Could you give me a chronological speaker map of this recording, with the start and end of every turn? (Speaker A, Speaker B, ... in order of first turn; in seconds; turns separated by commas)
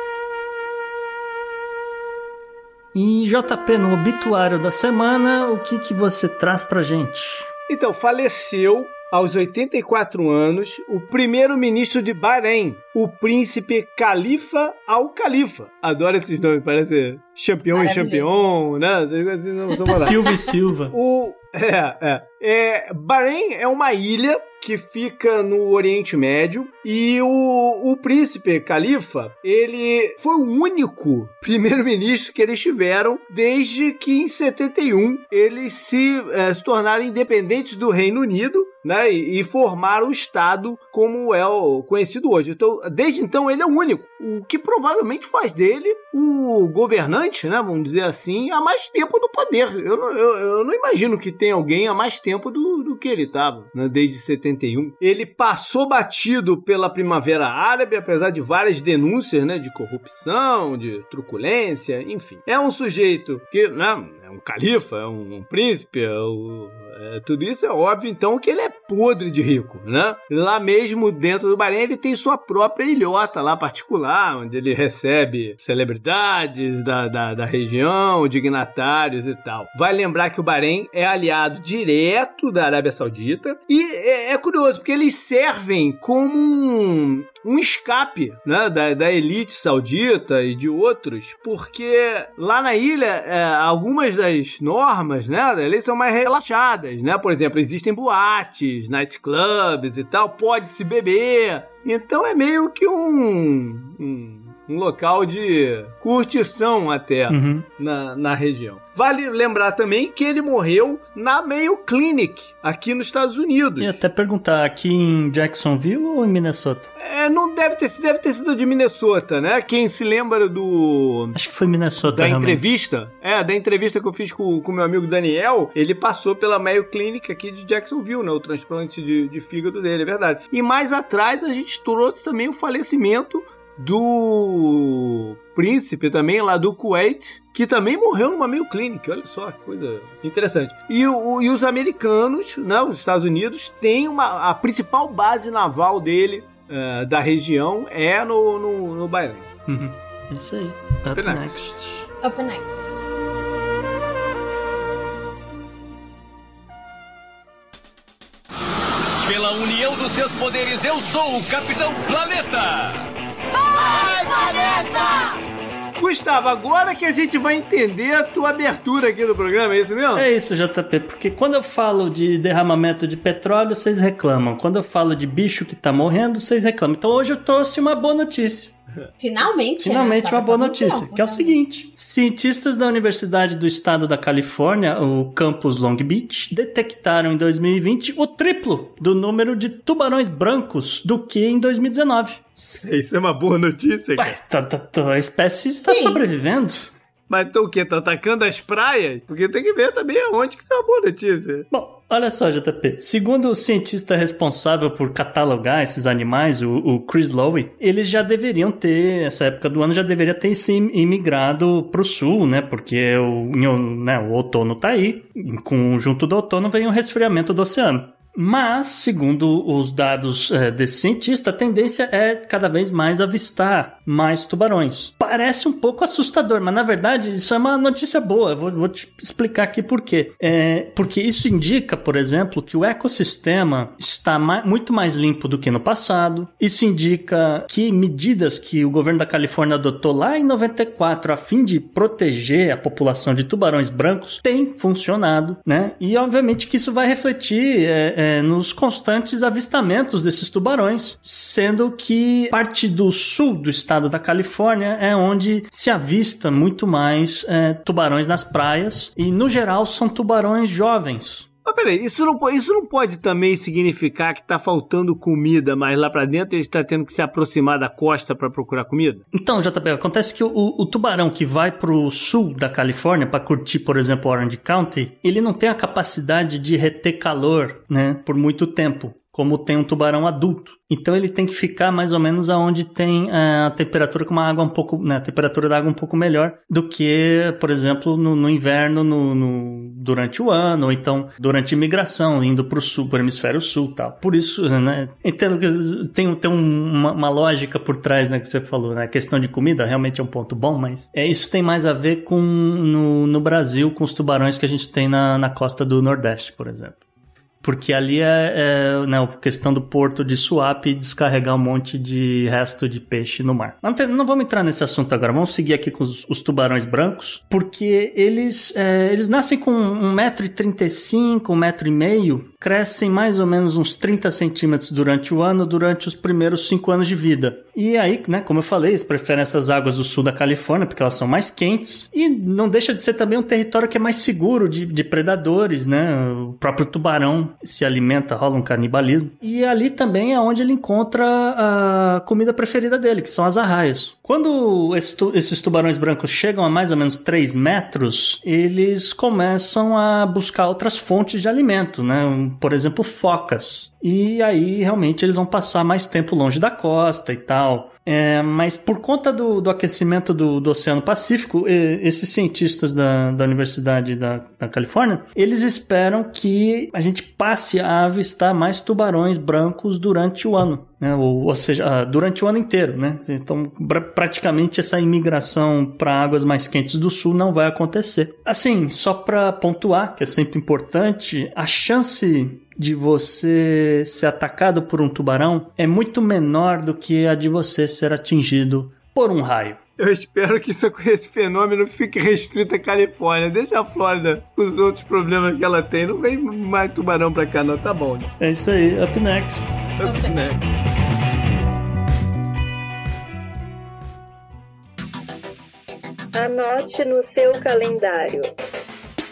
Speaker A: 2.9-7.5, Speaker B: 7.7-20.3, Speaker C: 17.7-18.4, Speaker C: 19.7-20.1, Speaker A: 19.9-20.9, Speaker B: 20.9-114.0, Speaker A: 107.3-107.7, Speaker A: 113.8-116.9, Speaker B: 117.0-121.4, Speaker A: 121.3-122.7, Speaker B: 122.0-149.5, Speaker A: 149.7-152.1, Speaker B: 151.1-151.6, Speaker C: 152.2-153.0, Speaker D: 159.2-162.9, Speaker C: 163.7-165.3, Speaker B: 165.9-170.2, Speaker A: 170.1-178.7, Speaker C: 179.2-181.5, Speaker A: 179.8-192.8, Speaker B: 192.8-194.3, Speaker A: 194.2-196.9, Speaker C: 195.9-196.2, Speaker B: 197.3-201.7, Speaker A: 201.7-261.5, Speaker B: 261.6-269.2, Speaker A: 269.3-307.0, Speaker A: 307.6-389.8, Speaker B: 390.0-398.3, Speaker A: 398.4-399.9, Speaker B: 400.0-400.7, Speaker C: 400.0-400.7, Speaker E: 406.3-408.5